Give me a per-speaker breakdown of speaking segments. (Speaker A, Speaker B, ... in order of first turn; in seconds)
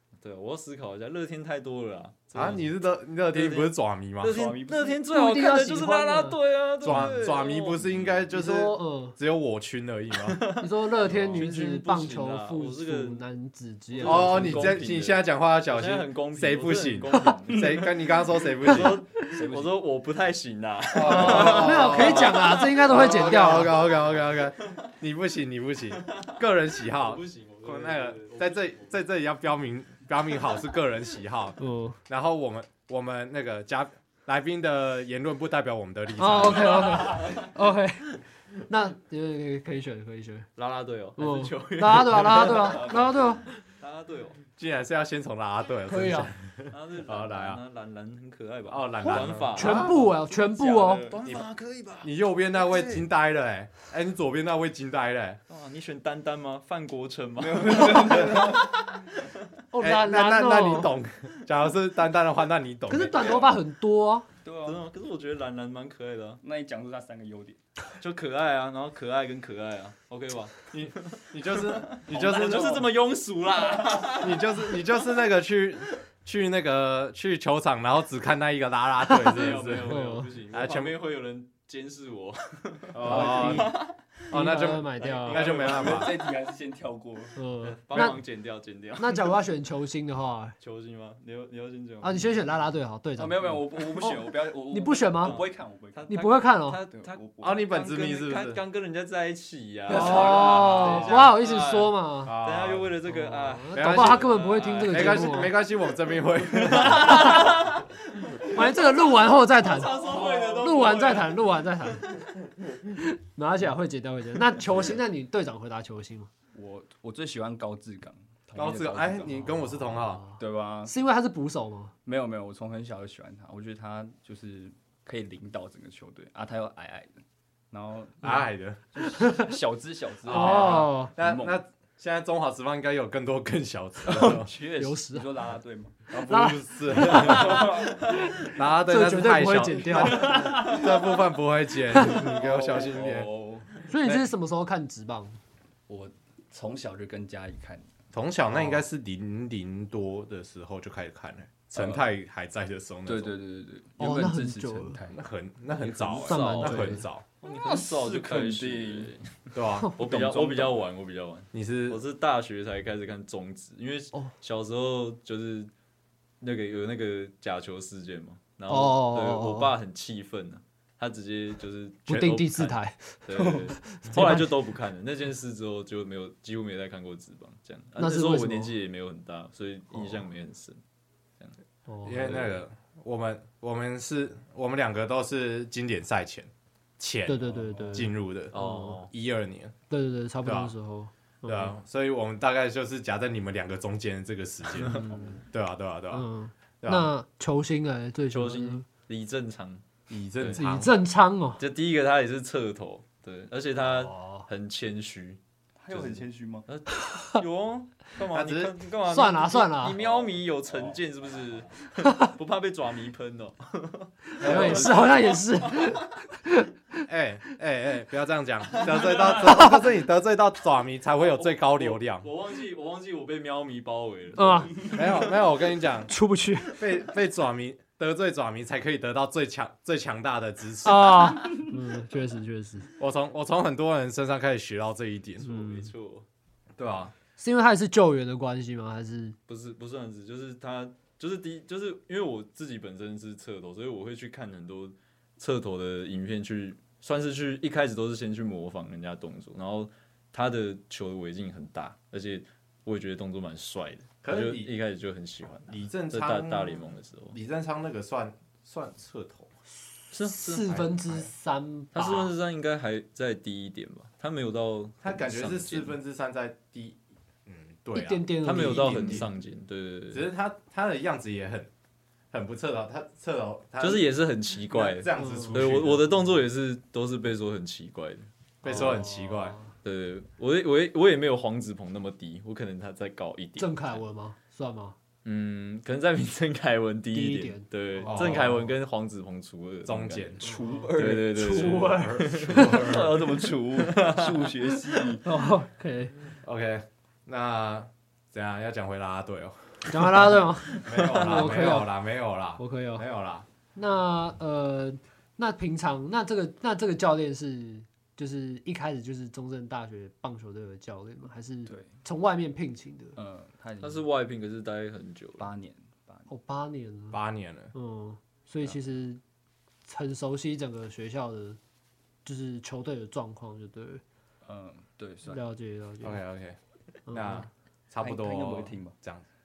Speaker A: 0.2-2.7, 3.3-8.2, 10.1-13.2, 13.9-22.8, 26.9-29.0, 36.6-37.5, 40.6-43.0, 43.8-44.4, 46.7-52.1, 52.7-53.0, 55.5-59.3, 64.6-66.4, 68.0-74.8, 79.1-86.3, 87.6-89.3, 90.6-92.3, 95.2-105.4, 106.5-112.3, 156.3-159.2, 159.9-165.7, 166.4-180.8, 182.1-182.6, 188.5-189.1, 198.3-199.8, 200.4-200.7, 201.6-216.0, 218.7-219.7, 221.2-225.4, 235.4-236.2, 239.5-257.4, 260.1-260.7, 261.9-266.0, 268.4-270.3, 273.8-278.3, 279.8-284.0, 285.2-295.1, 300.9-301.7, 313.8-315.5
Speaker B: 2.3-4.4, 6.8-10.4, 11.0-11.4, 14.0-19.0, 20.9-37.2, 44.6-47.6, 48.7-50.0, 52.0-55.4, 59.8-63.5, 70.7-72.9, 74.2-79.9, 80.5-81.0, 82.9-83.7, 84.3-86.2, 97.4-98.6, 102.2-102.9, 103.7-104.3, 104.9-107.5, 118.5-120.2, 128.2-128.8, 130.2-134.5, 136.1-137.8, 138.4-143.3, 148.1-153.3, 155.1-157.2, 159.5-159.9, 161.5-162.0, 182.0-188.5, 189.1-189.7, 190.4-190.7, 191.4-196.2, 196.8-197.1, 200.1-200.9, 208.3-208.7, 214.4-215.1, 217.1-222.2, 224.9-226.1, 226.7-231.6, 233.0-235.5, 236.8-237.1, 254.2-254.7, 255.7-259.5, 260.6-261.3, 265.0-269.3, 270.1-271.7, 272.3-274.1, 274.7-276.2, 278.6-279.6, 288.1-288.7, 289.9-290.4, 291.4-293.2, 296.4-299.7, 300.8-303.4, 317.1-317.7, 326.0-326.6, 327.1-329.2
Speaker C: 4.3-5.0, 19.3-19.8, 42.6-43.0, 57.4-58.8, 63.1-63.5, 64.4-64.8, 66.4-67.6, 83.0-83.5, 85.4-87.4, 93.2-96.1, 96.9-97.6, 99.9-101.3, 116.5-119.7, 120.4-120.9, 122.0-131.6, 134.0-136.1, 137.2-138.0, 140.1-140.9, 141.9-144.3, 145.9-147.9, 151.7-152.1, 153.1-156.6, 157.6-159.1, 160.0-160.8, 187.4-188.1, 194.9-195.4, 205.8-206.7, 209.9-211.6, 290.4-291.7, 292.5-295.2, 311.7-311.9, 313.1-314.0, 315.4-316.3, 324.4-325.4, 328.0-328.9
Speaker D: 5.1-6.4, 8.3-9.2, 10.6-14.8, 21.1-23.8, 31.6-32.0, 36.2-40.5, 41.2-43.4, 45.9-46.3, 49.0-51.1, 59.7-60.9, 62.9-64.3, 79.8-80.3, 83.0-83.8, 84.3-85.4, 87.3-88.2, 89.0-90.5, 92.0-93.4, 94.0-95.4, 96.1-96.8, 99.9-102.3, 103.1-105.5, 106.9-107.6, 108.4-112.1, 112.9-116.3, 119.7-121.9, 129.1-129.5, 130.3-131.1, 134.1-135.3, 136.1-140.8, 141.9-142.2, 143.9-145.3, 154.0-155.0, 156.3-157.1, 168.7-169.7, 172.1-174.5, 178.0-178.7, 181.9-182.4, 187.3-189.0, 189.9-191.7, 194.8-195.4, 196.1-198.8, 200.5-201.6, 203.8-204.5, 206.9-207.4, 209.1-210.0, 212.0-212.3, 214.3-217.0, 219.4-219.8, 224.3-225.0, 226.1-226.8, 230.8-232.9, 235.4-235.9, 237.4-239.4, 260.2-262.3, 267.9-269.3, 275.1-275.6, 278.6-279.7, 283.6-284.9, 287.1-288.5, 290.4-292.4, 295.2-296.1, 299.9-301.9, 302.6-303.0, 303.8-313.2, 316.3-317.2, 317.7-319.2, 319.8-321.6, 322.2-324.0, 325.3-326.2, 327.1-327.5